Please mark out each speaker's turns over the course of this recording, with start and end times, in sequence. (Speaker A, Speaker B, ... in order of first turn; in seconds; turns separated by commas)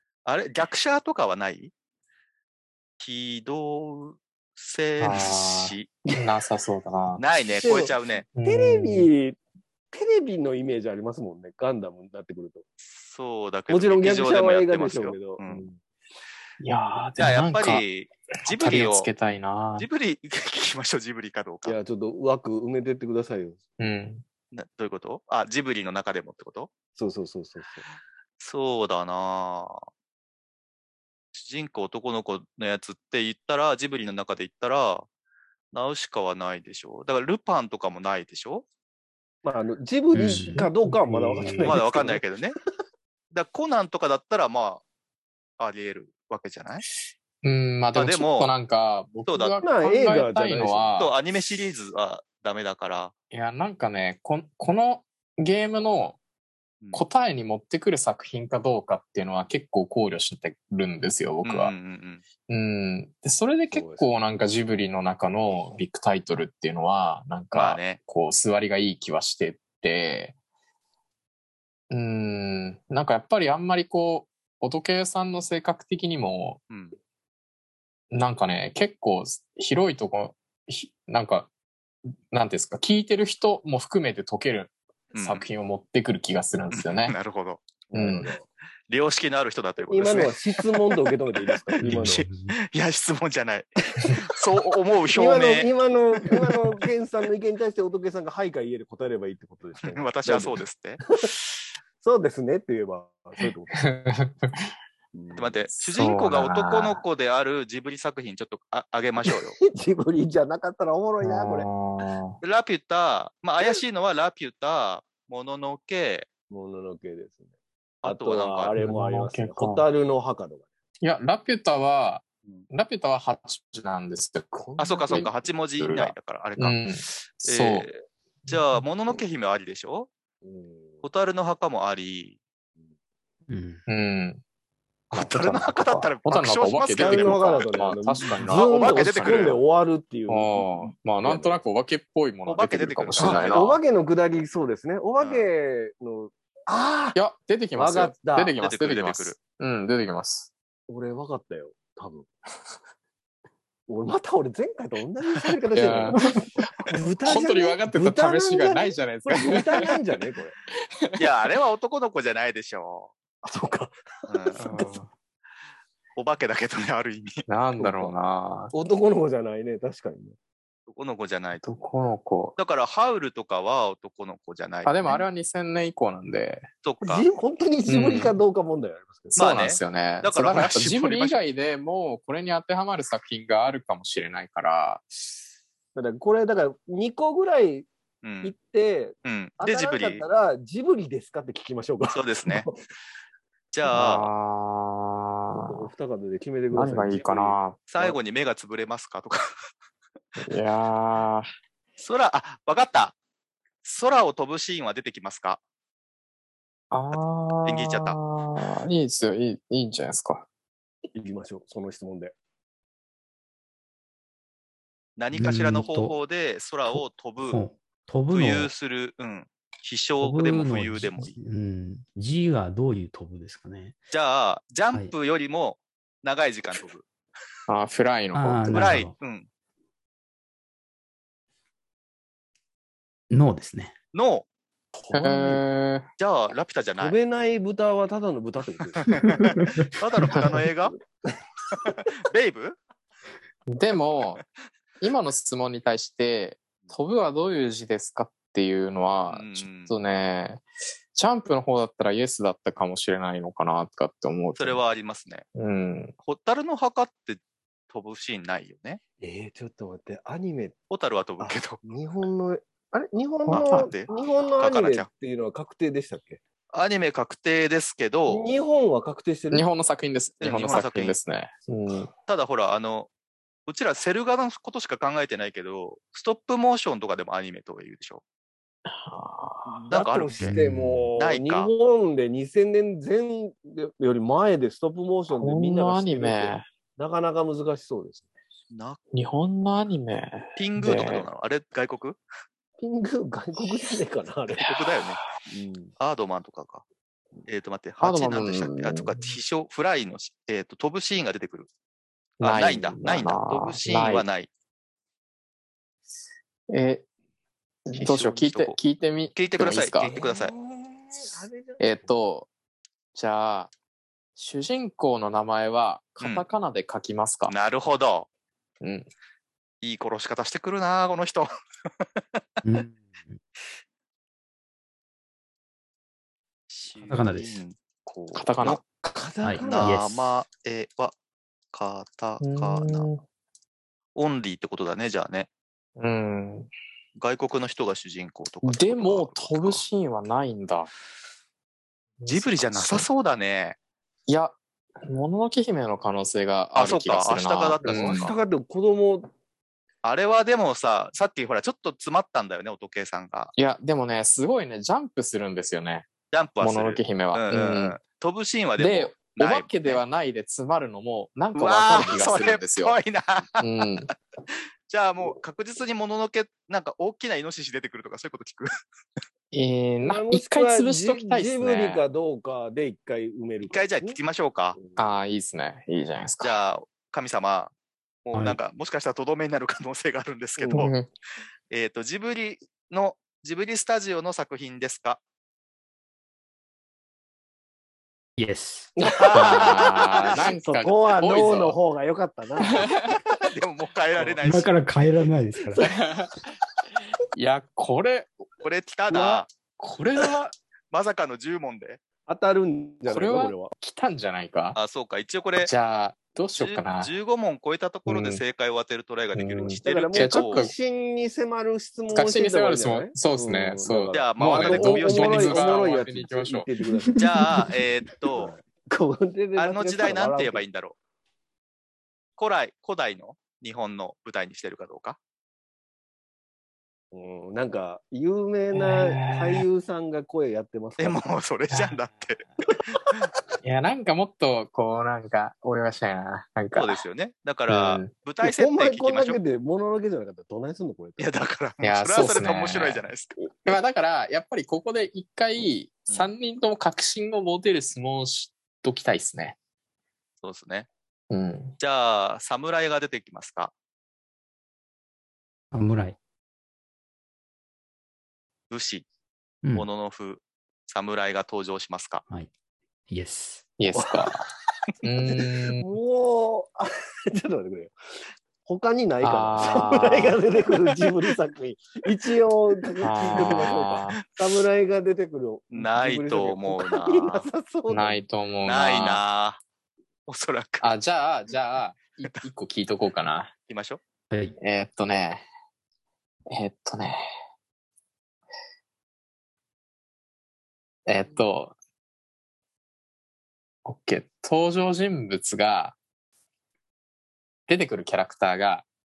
Speaker A: 0.2-1.7, Speaker A: 3.0-5.9, Speaker B: 5.0-7.2, Speaker A: 7.2-8.2, Speaker C: 7.6-9.4, Speaker B: 8.3-9.1, Speaker C: 9.9-12.6, Speaker A: 12.9-15.7, Speaker C: 13.7-15.8, Speaker B: 16.6-17.9, Speaker A: 17.2-19.1, Speaker B: 18.4-19.9, Speaker A: 19.8-21.8, Speaker C: 21.6-23.6, Speaker B: 23.8-24.2, Speaker A: 24.5-26.7, Speaker C: 27.0-27.8, Speaker A: 28.4-29.8, Speaker A: 31.3-35.1, Speaker A: 35.7-38.6, Speaker C: 39.4-42.2, Speaker D: 40.1-40.7, Speaker B: 40.3-41.8, Speaker A: 41.6-42.6, Speaker A: 43.3-44.8, Speaker A: 45.6-46.9, Speaker B: 47.4-51.1, Speaker A: 47.9-48.5, Speaker A: 49.3-49.6, Speaker C: 49.6-50.9, Speaker A: 51.0-53.1, Speaker B: 53.3-56.2, Speaker B: 56.9-61.7, Speaker A: 61.4-62.2, Speaker B: 62.5-70.3, Speaker C: 63.7-64.1, Speaker A: 67.5-68.0, Speaker B: 71.9-76.6, Speaker A: 76.7-77.0, Speaker B: 78.1-81.5, Speaker B: 82.3-87.2, Speaker A: 85.1-85.4, Speaker A: 86.7-87.6, Speaker C: 87.9-88.5, Speaker B: 87.9-88.3, Speaker A: 88.9-90.4, Speaker C: 89.8-92.2, Speaker A: 91.8-95.7, Speaker D: 91.8-92.5, Speaker C: 95.1-100.6, Speaker A: 99.9-101.0, Speaker C: 102.0-103.9, Speaker B: 103.8-104.7, Speaker C: 105.1-105.6, Speaker A: 105.4-109.6, Speaker B: 105.8-107.0, Speaker C: 109.6-111.7, Speaker B: 111.2-112.4, Speaker A: 112.4-116.3, Speaker C: 116.5-117.5, Speaker A: 118.0-118.7, Speaker C: 118.0-120.7, Speaker B: 118.8-119.8, Speaker B: 121.0-127.9, Speaker C: 124.6-125.3, Speaker A: 124.8-130.1, Speaker C: 130.4-131.0, Speaker A: 131.0-132.4, Speaker D: 133.5-133.8, Speaker B: 133.9-134.4, Speaker A: 135.1-137.8, Speaker B: 135.1-139.6, Speaker C: 137.0-141.6, Speaker A: 138.5-139.6, Speaker B: 140.3-143.8, Speaker A: 142.5-143.8, Speaker C: 143.2-147.2, Speaker A: 145.2-145.5, Speaker B: 147.2-150.5, Speaker C: 147.8-148.5, Speaker A: 148.6-149.4, Speaker C: 150.9-152.3, Speaker C: 153.9-160.6, Speaker B: 155.7-160.0, Speaker B: 160.7-161.3, Speaker A: 161.2-163.1, Speaker C: 163.4-165.0, Speaker A: 164.3-164.7, Speaker B: 164.6-165.1, Speaker A: 166.2-167.4, Speaker B: 167.5-168.7, Speaker C: 167.8-168.1, Speaker C: 168.7-170.4, Speaker A: 170.9-171.7, Speaker B: 171.6-172.6, Speaker A: 172.6-175.2, Speaker B: 174.8-176.7, Speaker A: 176.8-177.3, Speaker C: 177.0-179.4, Speaker B: 177.9-178.4, Speaker B: 179.3-185.1, Speaker A: 179.3-181.4, Speaker C: 185.9-187.9, Speaker A: 188.2-188.6, Speaker C: 188.4-192.7, Speaker A: 189.2-190.2, Speaker A: 192.1-192.7, Speaker A: 193.7-194.3, Speaker B: 193.9-195.9, Speaker C: 195.5-198.2, Speaker B: 196.7-197.8, Speaker A: 197.9-199.4, Speaker B: 200.4-201.5, Speaker A: 202.0-203.2, Speaker A: 203.8-205.6, Speaker B: 206.9-210.5, Speaker A: 207.7-208.2, Speaker C: 211.2-212.3, Speaker A: 215.2-217.6, Speaker D: 215.3-216.2, Speaker D: 216.9-218.7, Speaker A: 218.3-221.3, Speaker D: 220.2-224.0, Speaker A: 224.1-227.0, Speaker B: 227.7-229.0, Speaker D: 228.3-229.1, Speaker A: 228.7-229.5, Speaker D: 233.3-233.9, Speaker A: 234.1-234.4, Speaker C: 234.9-235.6, Speaker B: 235.1-236.1, Speaker A: 236.2-237.2, Speaker C: 237.0-239.5, Speaker A: 239.0-240.9, Speaker D: 239.1-240.3, Speaker A: 241.8-242.8, Speaker B: 243.7-244.4, Speaker B: 245.0-250.6, Speaker A: 249.3-249.9, Speaker B: 251.1-254.8, Speaker A: 254.6-255.4, Speaker B: 255.6-256.1, Speaker A: 256.3-259.0, Speaker C: 259.2-260.8, Speaker A: 260.9-261.8, Speaker C: 261.4-266.4, Speaker B: 263.5-263.9, Speaker A: 263.5-265.1, Speaker A: 266.7-268.4, Speaker C: 268.3-269.7, Speaker B: 269.5-272.1, Speaker A: 270.4-271.2, Speaker A: 272.3-273.1, Speaker A: 273.7-278.2, Speaker B: 278.9-279.8, Speaker C: 279.7-288.2, Speaker A: 279.9-280.5, Speaker B: 280.4-281.1, Speaker A: 281.2-281.7, Speaker B: 285.3-286.7, Speaker A: 288.7-289.0, Speaker B: 289.1-291.3, Speaker A: 290.6-292.2, Speaker C: 292.8-294.7, Speaker B: 294.6-295.1, Speaker A: 294.6-295.2, Speaker C: 295.5-295.9, Speaker A: 296.0-296.8, Speaker A: 297.5-301.7, Speaker B: 298.0-299.2, Speaker B: 302.4-304.3, Speaker A: 302.4-304.5, Speaker B: 306.7-307.1, Speaker B: 307.9-310.1, Speaker A: 307.9-308.8, Speaker A: 309.4-310.5, Speaker C: 310.0-312.1, Speaker B: 311.8-312.5, Speaker B: 313.1-313.7, Speaker B: 314.4-317.5, Speaker A: 316.2-316.4, Speaker A: 317.5-318.3, Speaker B: 318.8-319.1, Speaker A: 319.8-321.5, Speaker D: 322.6-323.4, Speaker A: 326.7-328.8, Speaker D: 327.1-327.6, Speaker B: 328.4-328.8, Speaker C: 329.0-330.0, Speaker D: 329.4-330.3, Speaker A: 329.6-331.1, Speaker A: 331.7-333.1, Speaker B: 332.4-333.2, Speaker A: 334.1-335.5, Speaker B: 336.0-336.7, Speaker A: 337.2-339.8, Speaker B: 338.6-340.9, Speaker B: 342.2-343.1, Speaker A: 342.3-343.8, Speaker B: 344.3-348.3, Speaker A: 346.7-348.4, Speaker C: 347.8-349.3, Speaker A: 350.0-353.5, Speaker B: 353.6-356.1, Speaker A: 356.3-360.0, Speaker B: 356.6-358.0, Speaker B: 358.8-363.0, Speaker A: 361.6-363.7, Speaker C: 361.9-362.5, Speaker B: 363.6-364.1, Speaker A: 364.9-368.7, Speaker B: 369.5-372.0, Speaker C: 370.0-374.2, Speaker A: 373.7-374.8, Speaker B: 375.0-376.6, Speaker A: 376.4-377.7, Speaker A: 378.2-380.9, Speaker C: 380.6-380.9, Speaker B: 380.7-381.1, Speaker A: 381.7-385.2, Speaker D: 388.4-388.9, Speaker C: 389.0-392.9, Speaker A: 389.2-390.5, Speaker B: 389.3-391.8, Speaker B: 392.6-393.2, Speaker A: 393.3-394.7, Speaker D: 394.4-395.9, Speaker B: 395.8-396.4, Speaker B: 397.3-398.3, Speaker A: 398.6-399.5, Speaker B: 399.1-400.5, Speaker A: 400.9-402.0, Speaker C: 402.3-403.7, Speaker B: 403.1-404.8, Speaker A: 404.8-405.7, Speaker B: 405.6-407.1, Speaker A: 406.6-410.7, Speaker B: 408.1-408.4, Speaker B: 409.4-410.7, Speaker C: 409.6-417.2, Speaker B: 412.1-416.7, Speaker A: 414.1-415.9, Speaker D: 417.0-417.7, Speaker A: 417.2-418.5, Speaker C: 418.4-420.6, Speaker A: 419.6-421.0, Speaker A: 422.4-425.2, Speaker C: 427.1-431.2, Speaker B: 428.7-429.6, Speaker A: 431.0-432.4, Speaker B: 431.7-432.0, Speaker B: 433.6-437.0, Speaker A: 436.7-439.4, Speaker B: 437.7-438.1, Speaker C: 438.4-441.3, Speaker A: 441.2-443.3, Speaker B: 441.8-443.1, Speaker B: 443.6-449.6, Speaker A: 450.4-450.9, Speaker B: 451.3-451.8, Speaker A: 451.8-453.7, Speaker D: 455.7-456.2, Speaker A: 458.7-459.1, Speaker A: 459.7-462.2, Speaker D: 463.1-463.7, Speaker B: 463.8-464.5, Speaker B: 465.0-465.9, Speaker C: 465.3-467.9, Speaker C: 468.6-478.2, Speaker B: 469.2-470.4, Speaker B: 473.0-474.2, Speaker A: 475.7-477.5, Speaker B: 477.9-479.2, Speaker A: 478.6-479.6, Speaker A: 480.3-480.9, Speaker B: 480.8-483.5, Speaker A: 483.7-484.0, Speaker D: 484.3-484.6, Speaker B: 484.6-485.4, Speaker B: 486.5-487.3, Speaker B: 491.1-491.8, Speaker B: 493.9-496.0, Speaker B: 497.7-498.9